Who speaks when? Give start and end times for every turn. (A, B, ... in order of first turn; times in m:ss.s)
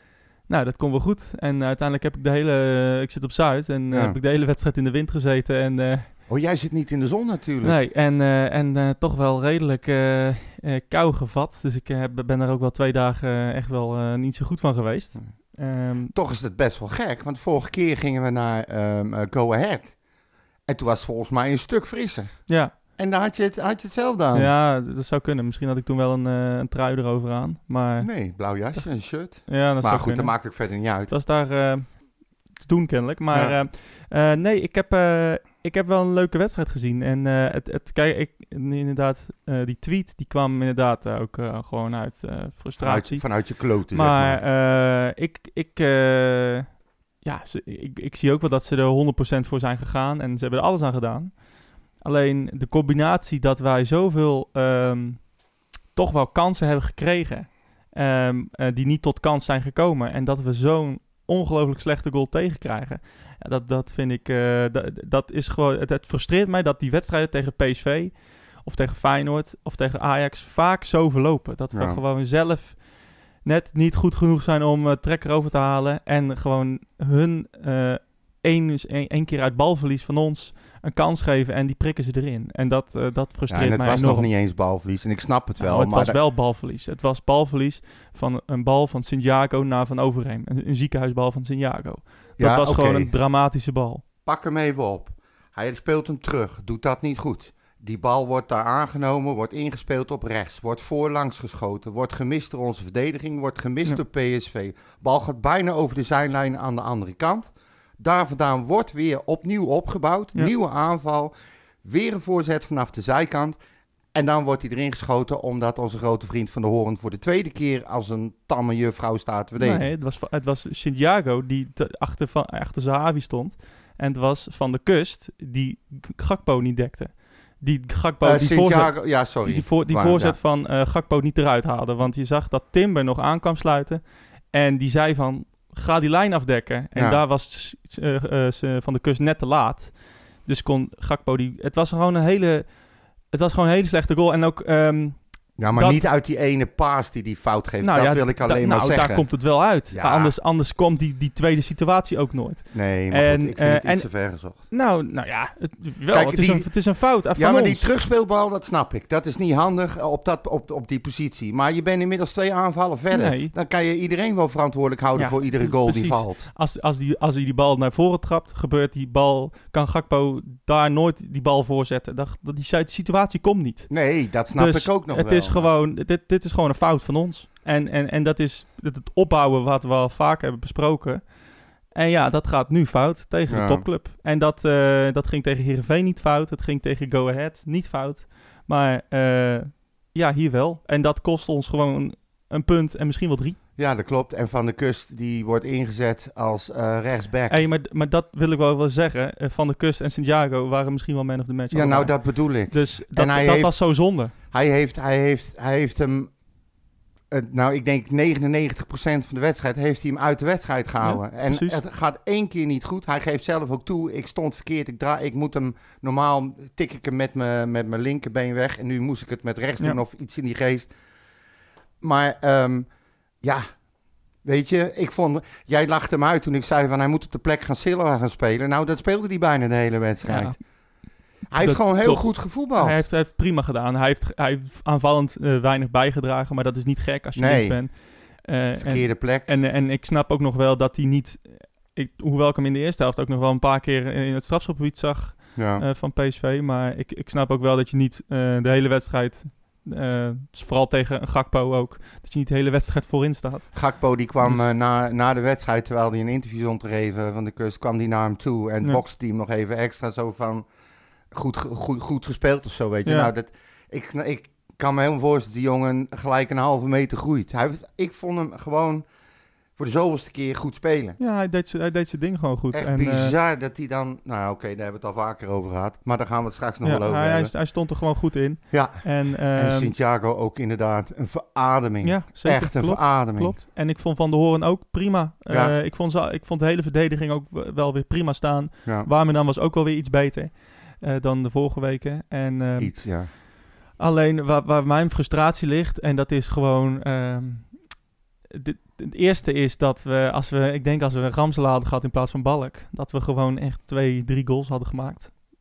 0:00.4-0:06.1 A
0:03.9-0:04.2 B
0:06.3-0:07.8 B
0:07.6-0:16.1 A
0:16.1-0:19.9 B
0:20.7-0:24.5 B
0:22.5-0:22.7 A
0:24.3-0:28.1 A
0:28.0-0:31.1 B
0:29.5-0:30.5 A
0:31.1-0:43.3 A
0:33.3-0:33.6 B
0:42.8-0:44.4 B
0:43.9-0:46.7 A
0:47.2-0:51.4 A
0:52.0-0:55.3 A
0:55.9-1:12.8 A
1:11.7-1:12.0 B
1:13.4-1:24.3 A
1:23.5-1:26.2 B
1:25.6-1:34.0 A
1:32.4-1:33.1 B
1:34.2-1:53.6 B
1:54.1-1:59.8 B
1:59.6-2:22.7 A
2:08.2-2:10.4 B
2:16.9-2:17.2 B
2:23.3-2:25.2 A
2:25.6-2:29.3 B
2:25.7-2:26.1 A
2:27.8-2:37.9 A
2:29.9-2:30.3 B
2:32.7-2:34.6 B
2:36.1-2:46.5 B
2:43.1-2:43.5 A
2:45.2-2:53.9 A
2:53.9-2:55.7 B
2:54.5-3:01.3 A
3:01.9-3:13.6 A
3:03.5-3:03.8 B
3:13.8-3:17.6 B
3:17.5-3:24.3 A
3:21.7-3:23.8 B
3:24.5-3:26.3 B
3:27.3-3:40.9 B
3:31.0-3:31.8 A
3:42.0-3:42.9 B
3:43.4-3:43.7 B
3:44.4-3:50.6 B
3:50.2-3:50.6 A
3:51.5-3:53.0 B
3:51.6-4:13.7 A
3:57.4-3:57.8 B
3:58.8-3:59.5 B
4:05.6-4:05.8 B
4:13.7-4:20.7 B
4:21.3-4:29.0 B
4:23.1-4:23.3 A
4:29.8-4:31.2 B
4:31.2-4:33.4 A
4:32.7-4:37.5 B
4:36.8-4:39.9 A
4:38.7-4:43.6 B
4:42.0-4:53.0 A
4:45.5-4:45.8 B
4:52.8-4:53.3 B
4:54.0-4:57.7 A
4:58.5-5:05.3 A